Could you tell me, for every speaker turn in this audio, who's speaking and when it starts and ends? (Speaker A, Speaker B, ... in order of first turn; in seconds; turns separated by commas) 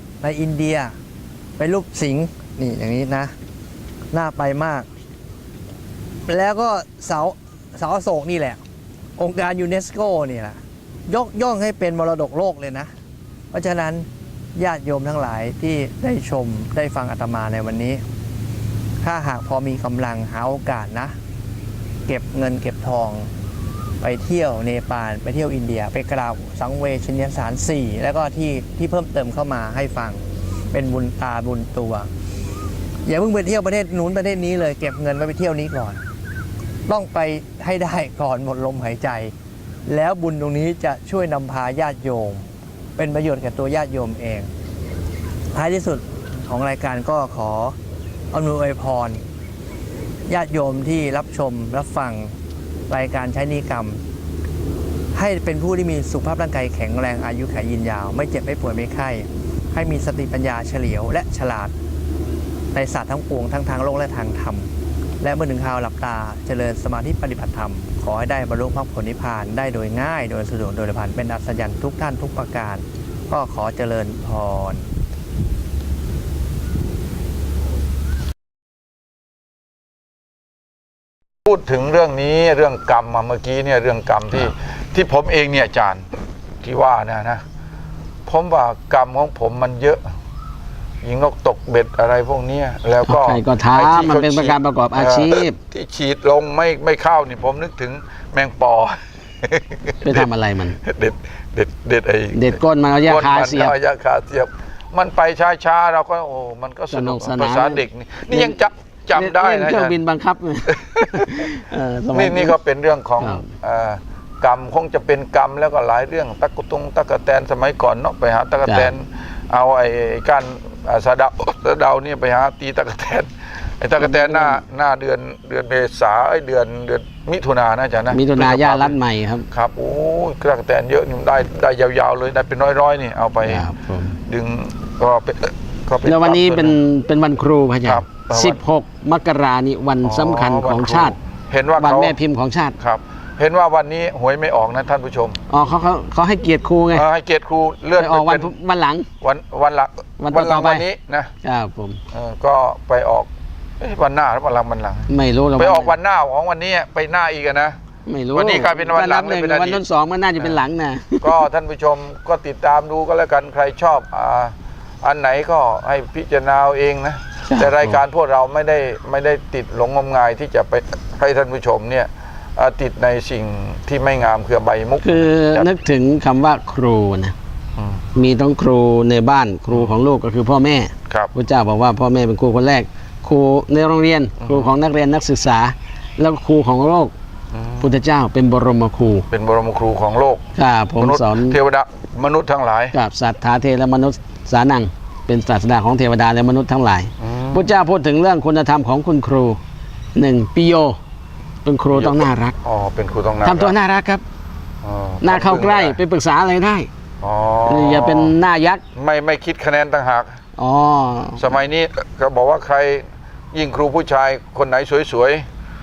Speaker A: 0.2-1.0, Speaker A: 1.6-3.3, Speaker A: 4.1-4.9, Speaker A: 6.3-8.6, Speaker A: 9.2-12.9, Speaker A: 13.5-18.0, Speaker A: 19.0-21.1, Speaker A: 22.1-23.3, Speaker A: 24.0-32.1, Speaker A: 33.0-36.0, Speaker A: 36.9-39.3, Speaker A: 39.9-44.5, Speaker A: 45.5-47.8, Speaker A: 48.3-49.2, Speaker A: 50.3-52.4, Speaker A: 52.9-54.0, Speaker A: 55.1-61.7, Speaker A: 62.7-74.9, Speaker B: 81.5-86.1, Speaker B: 86.6-87.4, Speaker B: 88.3-90.0, Speaker B: 91.0-100.3, Speaker C: 93.0-95.6, Speaker C: 100.0-100.8, Speaker B: 100.8-110.0, Speaker C: 102.3-103.8, Speaker C: 106.9-108.5, Speaker C: 109.2-112.6, Speaker B: 110.7-111.5, Speaker B: 112.1-123.3, Speaker C: 113.2-113.5, Speaker C: 118.7-118.9, Speaker B: 123.8-129.0, Speaker C: 124.0-124.6, Speaker C: 128.1-129.5, Speaker B: 129.5-133.7, Speaker C: 133.4-134.2, Speaker B: 134.3-136.8, Speaker C: 136.1-141.2, Speaker B: 137.9-138.6, Speaker B: 140.0-142.2, Speaker C: 141.8-142.8, Speaker B: 142.8-145.4, Speaker C: 145.5-147.1, Speaker B: 146.9-148.5, Speaker C: 148.0-149.1, Speaker B: 149.2-151.3, Speaker C: 150.2-150.8, Speaker C: 151.4-152.0, Speaker B: 152.1-153.3, Speaker B: 153.8-157.8, Speaker C: 155.1-156.0, Speaker C: 158.1-161.4, Speaker B: 158.3-159.8, Speaker B: 161.2-175.7, Speaker C: 167.5-168.0, Speaker C: 175.0-177.3, Speaker B: 177.8-178.0, Speaker C: 178.2-187.1, Speaker B: 179.7-180.0, Speaker B: 184.4-184.7, Speaker B: 187.5-187.9, Speaker C: 187.8-189.2, Speaker B: 189.3-192.9, Speaker C: 190.6-191.6, Speaker C: 192.9-199.6, Speaker B: 197.2-197.8, Speaker C: 200.2-201.0, Speaker C: 201.7-202.6, Speaker B: 201.9-203.8, Speaker C: 203.4-204.2, Speaker B: 204.8-206.0, Speaker C: 205.2-206.9, Speaker B: 207.2-208.3, Speaker C: 207.7-208.8, Speaker B: 209.0-210.4, Speaker C: 210.6-211.5, Speaker B: 211.4-215.5